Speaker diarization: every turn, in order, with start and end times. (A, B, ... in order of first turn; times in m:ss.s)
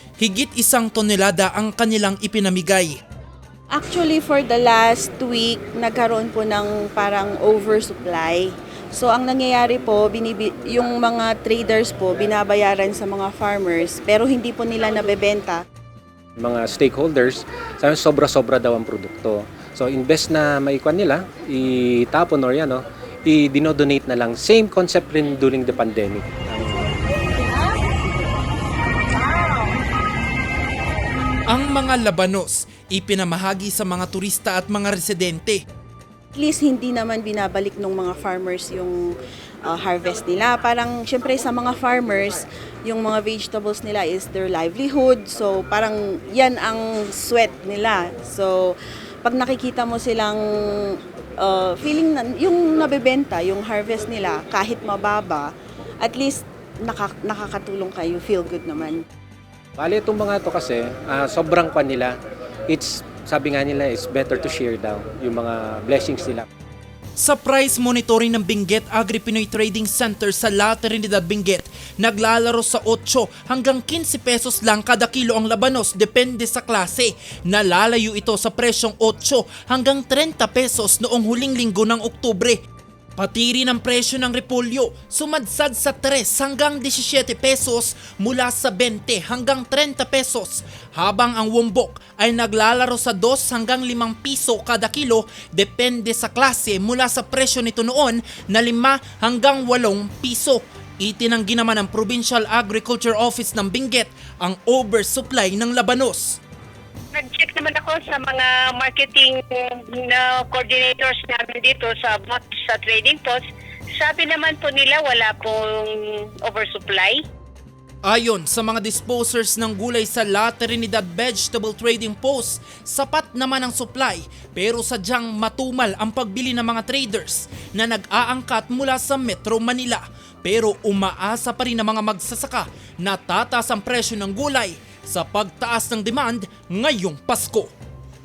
0:00.2-0:03.0 A
0:03.7-0:15.6 B
0:16.4-0:27.0 C
0:31.5-0:35.6 A
0:36.4-0:39.0 B
0:39.6-0:59.0 B
0:59.8-1:02.2 C
1:02.7-1:06.5 C
1:07.2-1:22.6 A
1:23.2-1:46.4 A
1:47.1-1:53.4 D
1:54.0-1:57.2 D
1:58.0-2:17.7 A